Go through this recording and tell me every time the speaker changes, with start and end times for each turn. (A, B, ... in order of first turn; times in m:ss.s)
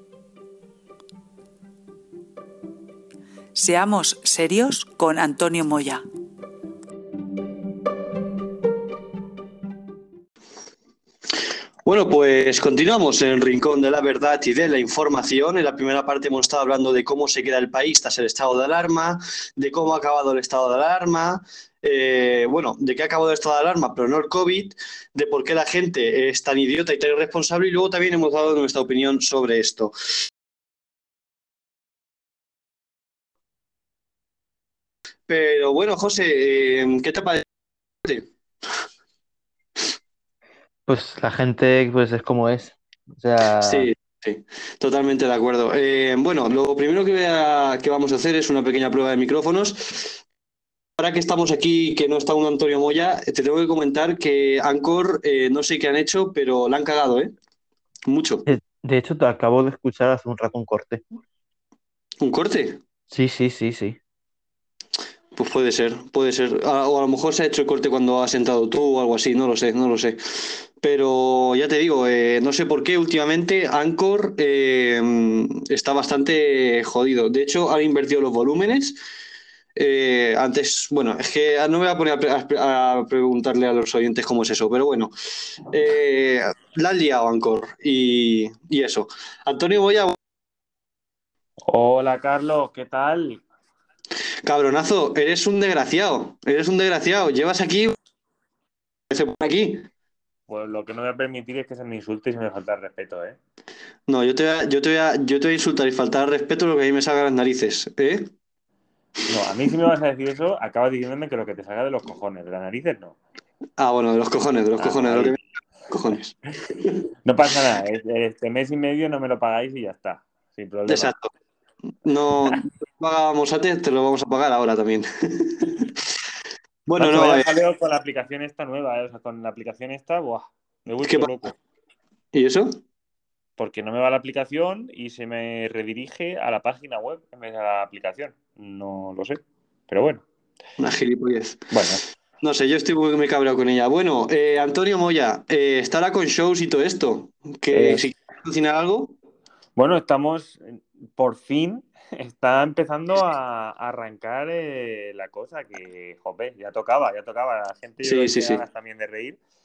0:03.6-0:06.0 A
0:11.8-0:29.9 B
0:35.3-0:37.5 B
0:40.9-0:43.9 C
0:43.6-0:50.2 B
0:51.0-0:57.3 B
0:58.1-0:58.5 B
0:58.5-1:01.0 C
1:02.2-1:02.8 B
1:03.1-1:04.0 C
1:05.4-1:19.0 B
1:19.8-1:25.1 B
1:25.7-1:30.2 B
1:31.6-1:33.4 D
1:34.4-1:38.0 B
1:39.1-1:39.9 B
1:40.5-1:43.4 D
1:44.1-1:48.3 B
1:49.3-1:53.2 D
1:53.8-1:56.4 B
1:54.8-1:55.4 D
1:57.2-2:01.1 D
2:00.9-2:01.3 B
2:02.0-2:05.9 B
2:06.9-2:07.5 B
2:07.0-2:11.6 D
2:11.0-2:11.3 B
2:12.3-2:12.8 B
2:13.6-2:20.2 D
2:20.8-2:21.7 B
2:21.7-2:22.0 D
2:22.4-2:29.2 B
2:27.7-2:28.1 D
2:29.8-2:39.4 D
2:38.0-2:38.6 B